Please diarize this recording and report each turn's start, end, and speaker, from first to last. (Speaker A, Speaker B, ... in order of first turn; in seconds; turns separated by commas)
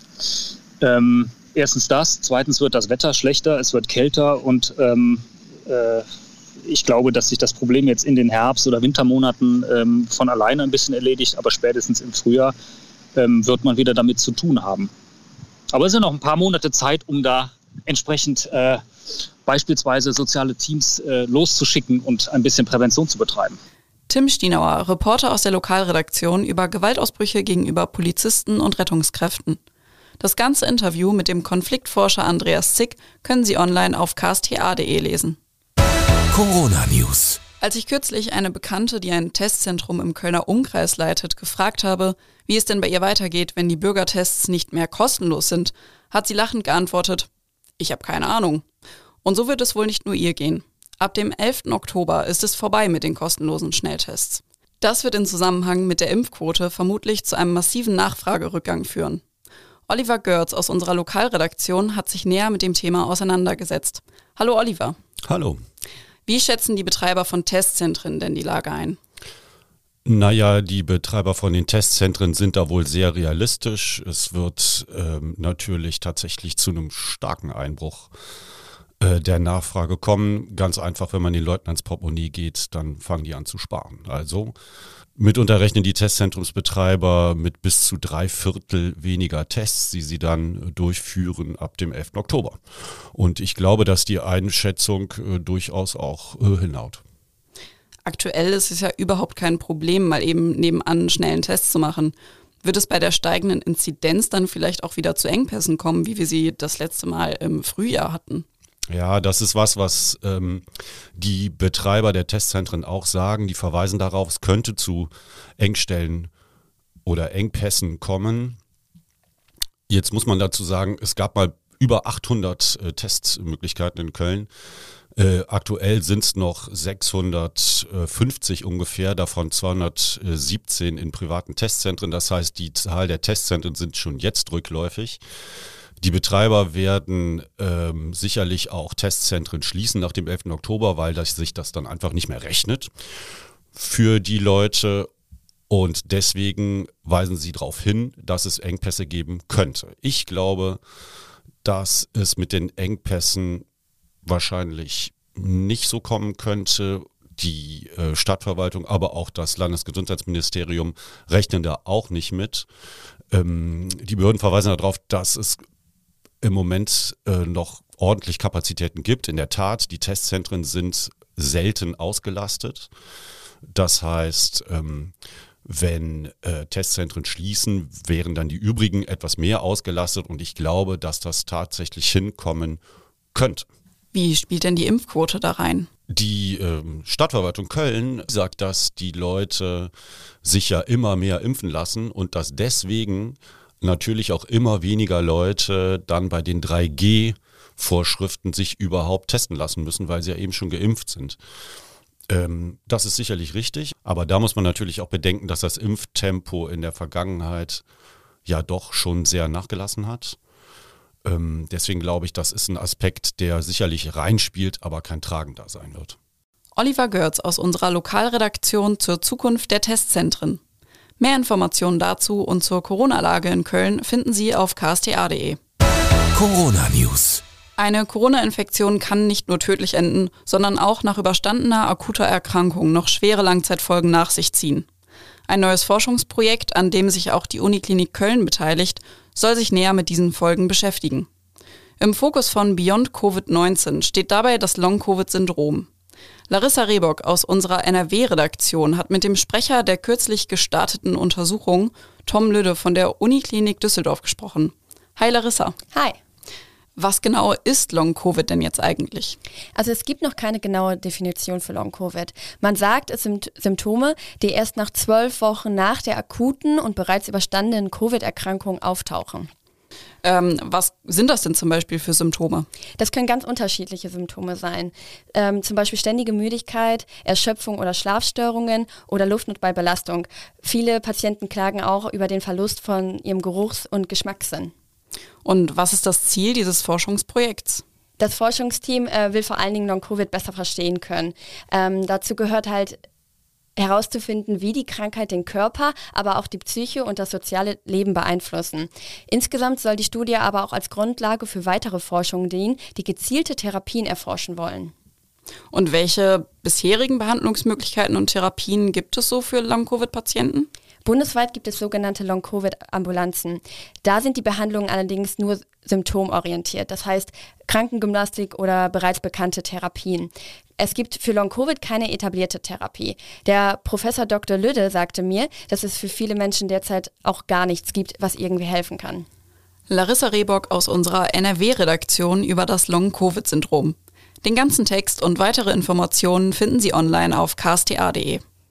Speaker A: 0.8-6.1, Speaker A: 6.6-12.5, Speaker A: 13.1-14.9, Speaker A: 15.7-18.8, Speaker A: 19.4-23.6, Speaker B: 24.1-29.6, Speaker B: 30.2-35.4, Speaker C: 36.3-37.4, Speaker B: 37.6-47.3, Speaker B: 47.8-48.6, Speaker B: 49.2-59.2, Speaker B: 59.9-65.0, Speaker D: 65.2-65.6, Speaker B: 66.2-69.0, Speaker D: 70.0-78.1, Speaker D: 79.0-84.5, Speaker D: 85.2-92.6, Speaker D: 93.1-97.0, Speaker B: 98.0-108.4, Speaker D: 108.9-110.6, Speaker D: 111.2-116.3, Speaker D: 117.0-118.6, Speaker D: 119.9-124.5, Speaker D: 125.2-135.2, Speaker D: 136.0-142.9, Speaker D: 143.7-145.1, Speaker D: 145.7-150.8, Speaker D: 151.6-153.7, Speaker D: 154.2-162.7, Speaker D: 163.3-165.6, Speaker D: 166.4-172.9, Speaker D: 173.7-175.1, Speaker D: 175.7-182.8, Speaker D: 183.3-183.7, Speaker B: 184.1-185.9, Speaker D: 186.1-189.9, Speaker D: 190.4-201.4, Speaker D: 202.3-207.8, Speaker D: 208.5-210.4, Speaker D: 211.2-216.2, Speaker B: 216.8-220.6, Speaker B: 221.2-225.6, Speaker C: 226.3-227.4, Speaker B: 227.8-234.9, Speaker B: 235.5-241.3, Speaker B: 242.0-245.9, Speaker B: 246.5-255.8, Speaker B: 257.0-259.4, Speaker E: 259.8-269.5, Speaker B: 270.2-272.7, Speaker E: 273.0-284.7, Speaker B: 285.4-287.8, Speaker E: 288.2-293.0, Speaker E: 293.8-304.9, Speaker B: 305.7-310.7, Speaker E: 311.0-329.2, Speaker B: 329.9-338.4